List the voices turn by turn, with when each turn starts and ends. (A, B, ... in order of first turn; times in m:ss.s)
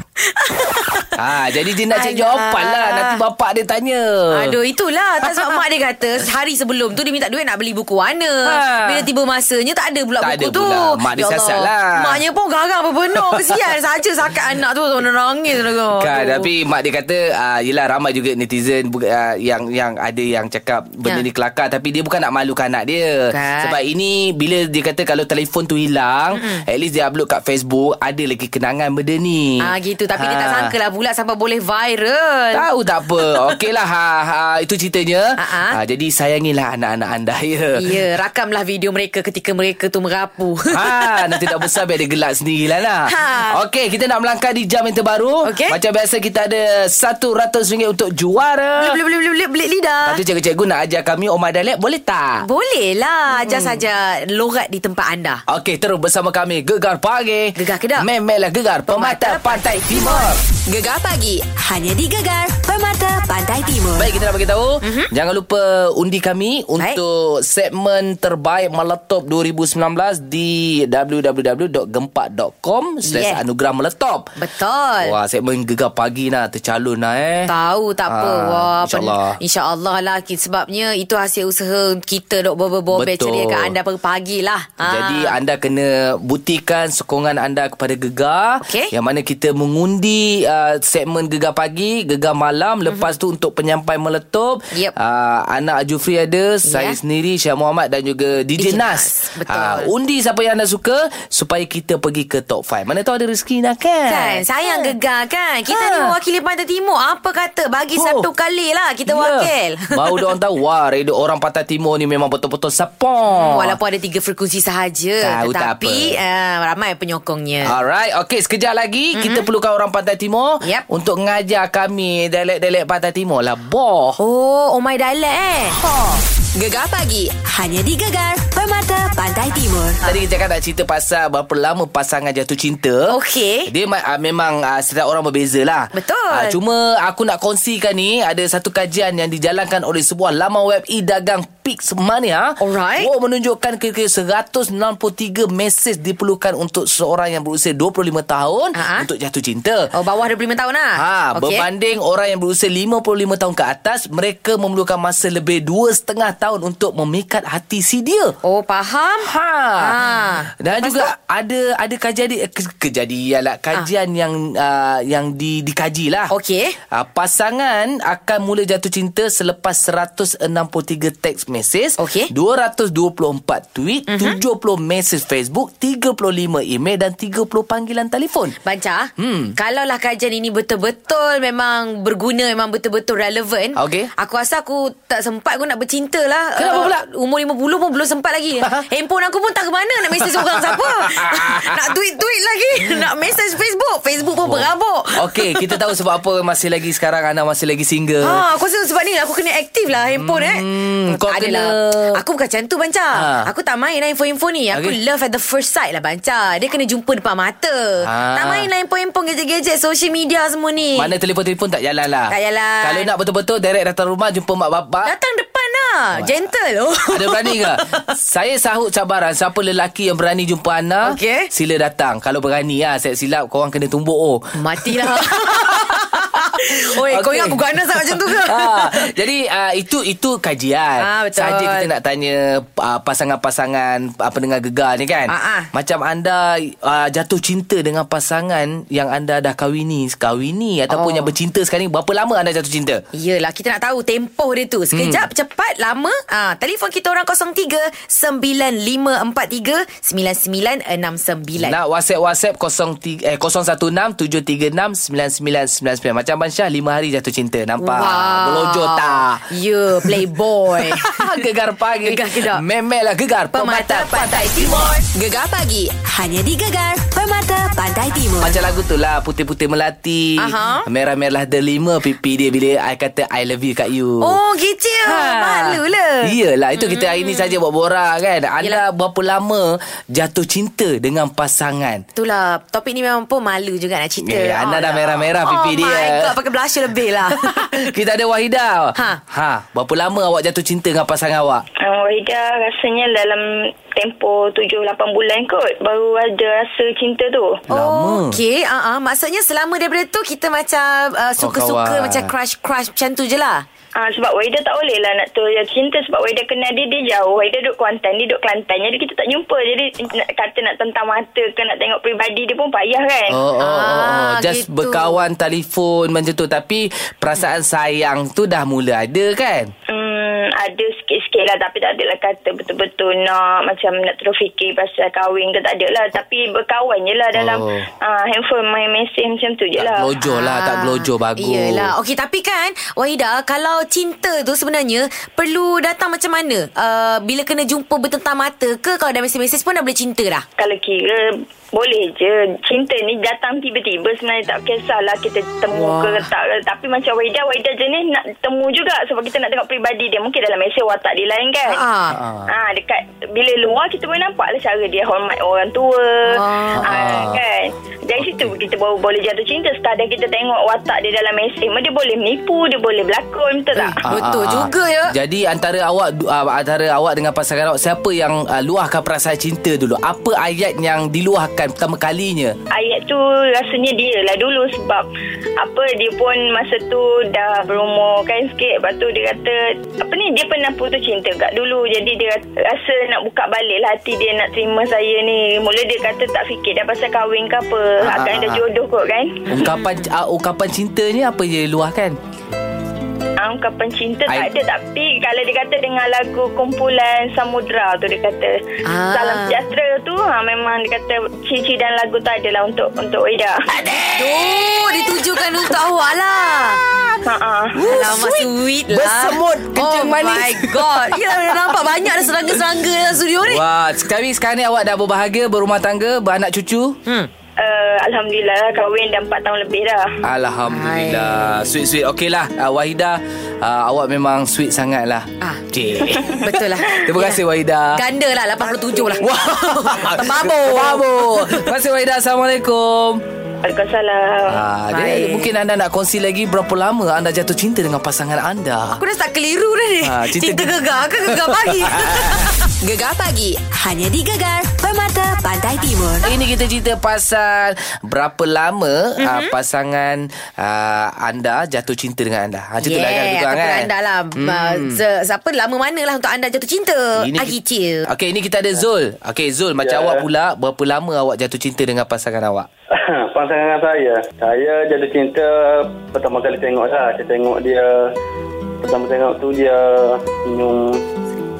0:00.3-0:01.1 A
0:01.2-0:04.6 B
0:01.9-0:03.2 A
0:04.3-0:16.5 A
0:08.4-0:09.1 B
0:10.2-0:12.2 B
0:13.1-0:13.6 B
0:16.0-0:30.7 B
0:23.3-0:23.8 A
0:26.3-0:26.6 A
0:29.6-0:32.6 A
0:32.5-0:37.7 B
0:35.4-0:35.8 A
0:37.8-0:41.2 A
0:40.7-0:49.0 B
0:43.0-0:43.6 A
0:45.4-0:45.8 A
0:48.8-0:50.2 A
0:50.0-0:52.4 B
0:52.4-0:55.4 A
0:53.3-0:53.8 B
0:55.5-1:00.4 B
0:57.6-0:58.1 A
0:58.9-1:00.3 A
1:00.6-1:04.1 C
1:04.0-1:14.3 B
1:04.8-1:05.1 A
1:13.0-1:13.4 A
1:14.4-1:15.2 A
1:15.0-1:17.5 B
1:17.5-1:25.4 A
1:18.1-1:19.4 B
1:22.9-1:23.7 B
1:24.8-1:44.9 B
1:28.6-1:28.9 A
1:36.6-1:37.0 A
1:38.6-1:39.9 A
1:44.1-1:49.9 A
1:45.7-1:46.2 B
1:48.0-1:48.3 B
1:49.0-1:53.8 B
1:53.3-1:57.7 A
1:55.2-1:56.2 B
1:57.6-2:04.2 B
1:59.1-1:59.4 A
2:04.2-2:05.8 A
2:06.5-2:10.0 C
2:10.0-2:29.9 B
2:13.1-2:13.7 A
2:15.9-2:16.6 A
2:22.6-2:23.1 A
2:28.7-2:29.1 A
2:29.9-2:31.7 A
2:31.0-2:38.3 B
2:38.4-2:39.3 A
2:39.2-2:39.9 B
2:39.8-2:41.1 A
2:40.6-2:46.3 B
2:46.3-2:46.7 A
2:46.9-2:58.6 B
2:52.0-2:52.3 A
2:54.1-2:54.4 A
2:58.6-3:15.7 A
2:59.2-2:59.6 B
3:03.8-3:04.1 B
3:06.6-3:07.0 B
3:08.6-3:08.8 B
3:10.3-3:11.9 B
3:14.4-3:18.4 B
3:18.2-3:31.1 A
3:20.1-3:22.2 B
3:23.1-3:23.5 B
3:24.7-3:25.0 B
3:28.0-3:28.7 B
3:30.9-3:35.1 B
3:32.3-3:33.1 A
3:35.0-3:38.0 A
3:37.1-3:46.2 B
3:41.1-3:41.5 A
3:44.6-3:49.1 A
3:47.0-4:03.0 B
3:51.0-3:51.9 A
3:55.3-3:55.7 A
4:00.9-4:01.3 A
4:03.1-4:11.8 A
4:04.9-4:05.2 B
4:11.6-4:19.4 B
4:17.8-4:21.2 A
4:20.0-4:24.9 B
4:22.0-4:22.6 A
4:23.5-4:25.0 A
4:25.1-4:28.6 C
4:28.4-4:34.4 B
4:30.4-4:30.8 A
4:34.2-4:37.6 A
4:35.0-4:42.0 B
4:42.2-4:47.9 A
4:44.2-4:46.4 B
4:47.3-4:51.6 B
4:49.0-4:49.2 A
4:51.8-4:57.5 D
4:57.7-4:58.4 B
4:57.7-5:03.6 A
5:01.4-5:02.3 B
5:04.0-5:13.4 D
5:13.3-5:19.7 B
5:13.6-5:15.2 A
5:19.9-5:30.1 D
5:27.3-5:27.9 B
5:29.8-5:31.9 B
5:30.2-5:40.4 A
5:40.6-5:51.8 D
5:45.7-5:46.3 A
5:51.7-5:52.2 A
5:52.1-5:52.5 B
5:52.5-6:04.0 D
5:56.3-5:57.0 A
5:56.8-5:57.4 B
5:58.2-5:58.6 B
6:03.8-6:05.1 A
6:04.0-6:12.5 B
6:12.7-6:15.0 D
6:15.6-6:29.4 D
6:28.0-6:28.6 B
6:29.5-6:32.2 B
6:29.7-6:30.1 A
6:33.4-6:43.5 D
6:38.8-6:39.6 A
6:43.7-6:45.7 B
6:44.1-6:46.8 A
6:46.5-6:47.2 B
6:47.2-6:47.7 D
6:47.7-6:51.8 B
6:47.8-6:53.6 A
6:53.4-6:57.0 B
6:57.6-7:00.0 D
7:00.2-7:08.0 B
7:00.7-7:01.7 A
7:06.3-7:07.4 A
7:07.9-7:11.6 A
7:09.0-7:13.2 B
7:13.6-7:14.6 D
7:14.5-7:19.0 B
7:14.9-7:15.5 A
7:19.0-7:22.6 A
7:20.0-7:22.6 B
7:22.8-7:26.3 C
7:26.2-7:35.0 B
7:29.2-7:29.5 A
7:32.8-7:38.0 A
7:37.2-7:37.6 B
7:38.1-7:42.7 B
7:39.8-7:40.2 E
7:42.9-7:48.1 E
7:48.8-7:51.0 E